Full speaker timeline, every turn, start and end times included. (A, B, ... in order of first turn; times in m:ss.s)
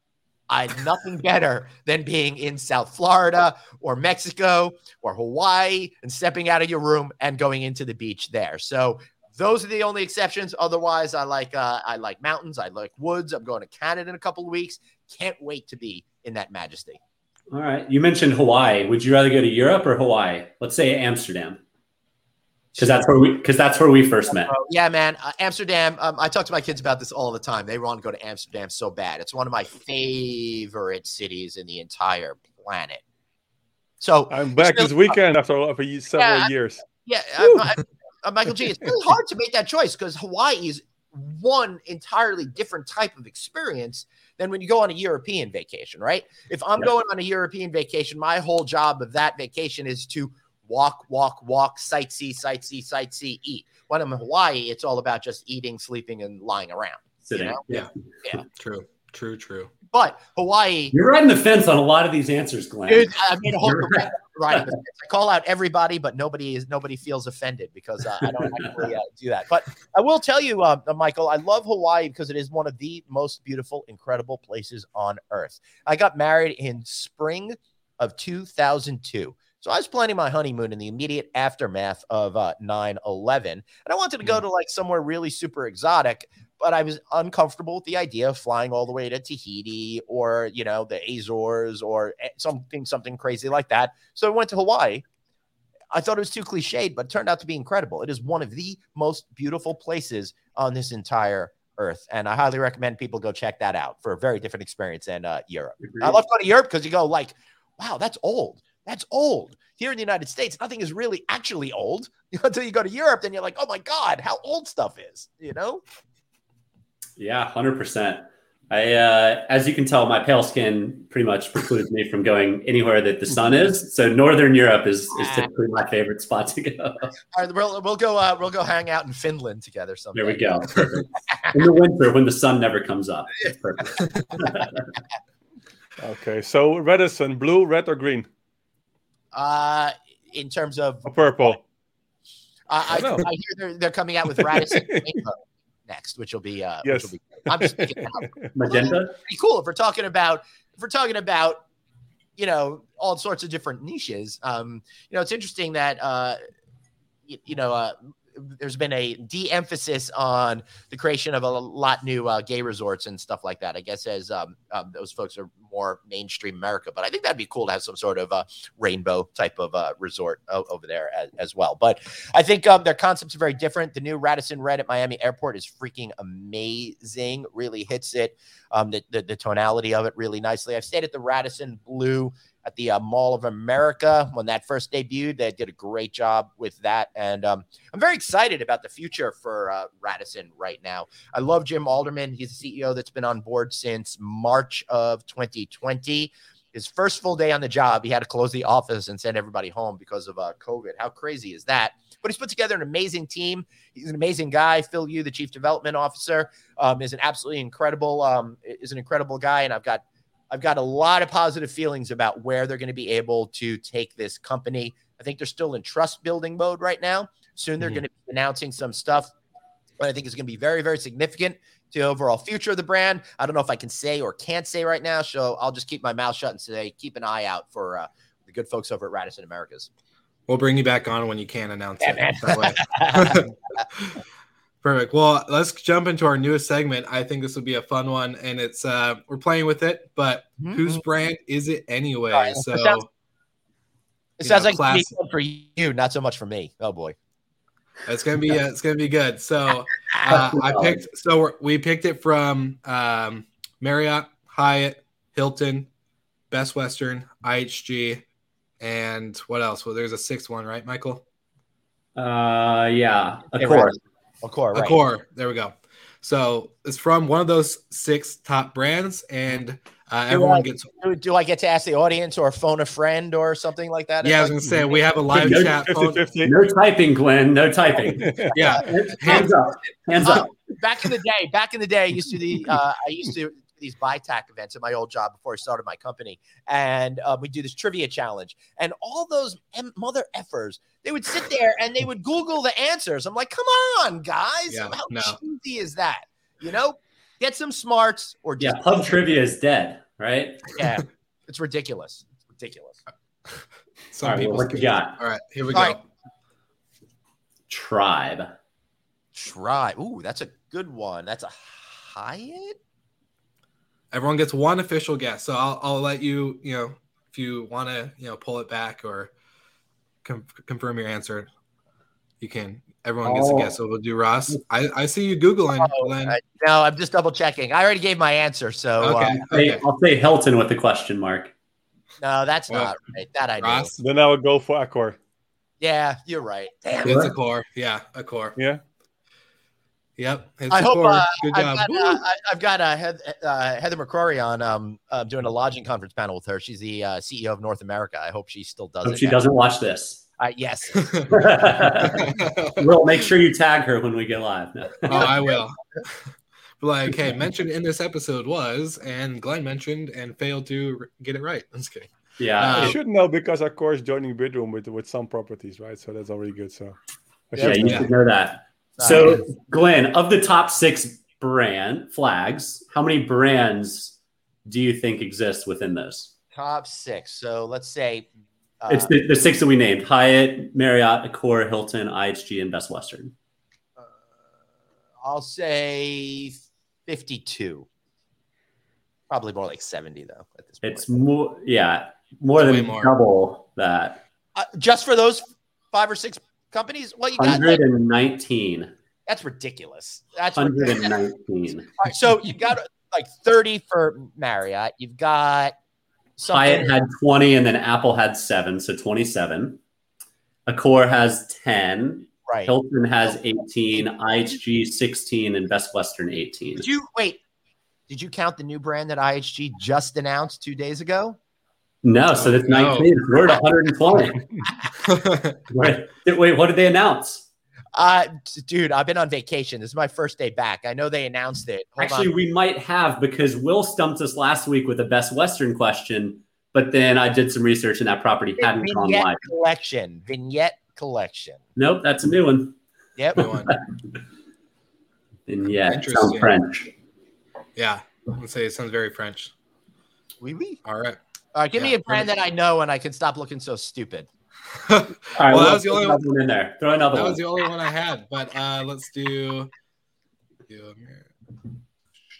0:00.5-0:17.0 A
0:17.5-0:21.6 B
0:22.8-0:23.1 A
0:22.8-0:24.5 B
0:24.3-0:33.0 A
0:34.0-0:35.2 A
0:34.3-0:36.8 C
0:36.2-0:57.6 A
0:37.4-0:37.8 C
0:57.3-0:57.9 B
0:58.6-0:59.7 D
0:59.9-1:00.9 A
1:00.9-1:04.6 B
1:02.9-1:35.1 A
1:35.9-1:55.8 A
1:45.8-1:46.1 B
1:57.2-2:07.1 B
2:07.3-2:11.5 A
2:10.2-2:14.9 B
2:16.0-2:18.3 C
2:19.3-2:21.6 A
2:21.1-2:21.6 C
2:22.7-2:31.6 A
2:22.9-2:23.3 C
2:24.4-2:25.2 C
2:26.8-2:28.5 C
2:28.6-2:29.2 B
2:32.4-2:36.4 A
2:37.3-3:39.3 A
3:40.0-3:49.9 A
3:50.5-3:54.2 D
3:52.0-3:53.5 A
3:54.8-4:03.1 D
4:00.6-4:01.0 A
4:02.3-4:03.0 A
4:04.4-4:07.2 A
4:04.4-4:05.1 D
4:08.1-4:15.9 D
4:10.3-4:11.0 B
4:16.5-4:18.2 D
4:18.8-4:21.2 D
4:22.2-4:24.0 B
4:23.5-4:25.0 A
4:24.7-4:30.9 D
4:30.3-4:34.8 A
4:34.2-4:36.3 D
4:35.3-4:36.6 C
4:35.4-4:35.8 B
4:36.4-4:40.5 B
4:38.2-4:38.5 C
4:38.5-4:39.5 D
4:38.7-4:39.5 A
4:40.2-4:59.2 A
4:54.7-4:55.4 D
4:58.6-5:00.8 B
5:00.8-5:03.0 A
5:04.1-5:06.0 D
5:04.2-5:05.2 B
5:05.7-5:06.0 A
5:07.7-5:08.5 B
5:09.3-5:12.8 A
5:14.1-5:19.3 D
5:20.2-5:21.5 D
5:22.4-5:26.4 D
5:23.2-5:23.7 B
5:25.8-5:29.4 A
5:29.0-5:29.8 D
5:29.5-5:31.5 B
5:32.2-5:33.9 A
5:33.6-5:34.0 D
5:34.0-5:35.2 C
5:35.8-5:37.3 A
5:37.0-5:38.6 D
5:37.0-5:37.3 B
5:40.2-5:42.2 D
5:40.7-5:49.4 A
5:49.0-5:50.2 B
5:50.4-5:51.6 A
5:51.3-5:55.4 B
5:52.0-5:52.8 D
5:55.1-6:03.0 D
5:55.1-5:55.6 A
6:02.4-6:03.0 B
6:02.8-6:07.0 C
6:07.5-6:08.1 C
6:07.6-6:07.9 A
6:07.6-6:16.3 B
6:07.8-6:08.1 D
6:09.0-6:09.4 A
6:16.5-6:18.3 A
6:18.8-6:19.1 A
6:18.9-6:23.3 B
6:24.0-6:24.2 A
6:25.2-6:27.9 A
6:29.3-6:31.1 A
6:30.8-6:34.2 B
6:32.6-6:33.1 D
6:34.6-6:37.8 A
6:37.4-6:38.9 B
6:39.3-6:41.1 A
6:40.6-6:42.1 B
6:42.0-6:45.8 A
6:46.4-6:47.0 A
6:46.5-6:49.8 B
6:50.7-6:56.9 B
6:52.5-6:52.7 A
6:56.8-6:57.4 A
6:58.1-7:01.4 A
7:02.0-7:04.4 B
7:02.4-7:03.1 D
7:05.0-7:05.6 D
7:05.7-7:07.4 B
7:07.9-7:12.3 A
7:12.0-7:19.4 B
7:18.6-7:21.6 A
7:21.8-7:22.8 B
7:23.4-7:23.7 D
7:23.4-7:23.8 B
7:25.5-7:26.9 B
7:25.9-7:26.6 D
7:27.8-7:29.5 D
7:30.4-7:30.8 A
7:30.8-7:31.2 D
7:31.5-7:34.3 A
7:31.8-7:32.3 D
7:34.8-7:36.2 D
7:35.4-7:37.4 B
7:37.1-7:39.7 D
7:40.7-7:41.3 D